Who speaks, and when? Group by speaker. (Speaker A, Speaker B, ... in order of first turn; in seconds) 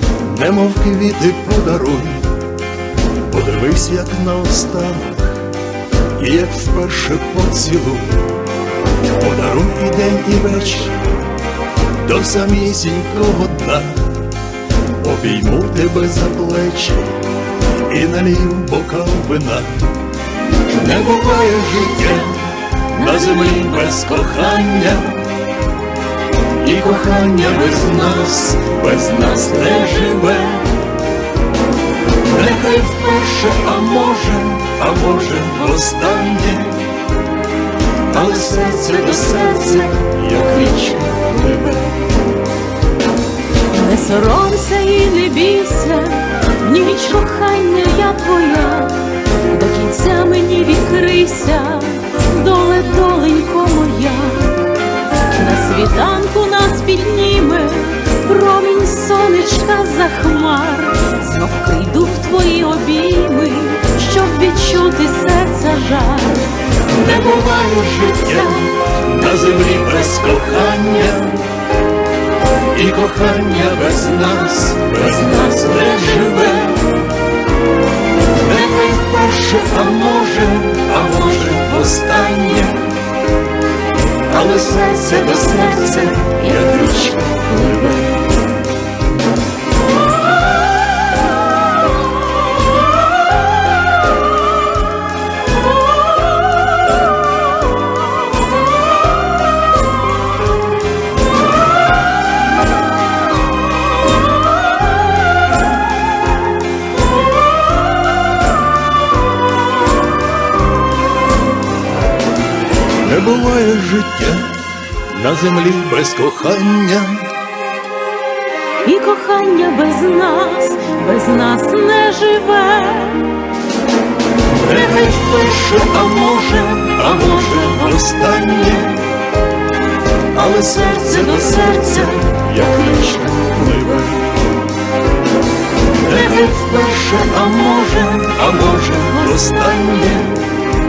Speaker A: 0.2-2.3, 3.3-5.3, 6.2-8.2, 9.0-11.0, 12.0-14.1, 15.0-19.9, 20.6-25.3, 26.6-30.8, 32.2-36.9, 38.1-41.9, 66.8-71.5, 72.7-76.9, 78.3-82.9, 84.2-87.3, 113.0-114.5, 115.1-117.3, 124.5-129.1, 130.3-134.3, 135.9-140.5
Speaker B: 39.5-40.7, 41.3-41.7, 43.7-54.7, 55.3-66.7, 75.1-76.1, 86.3-88.2, 118.8-123.4, 127.2-127.6, 131.0-134.0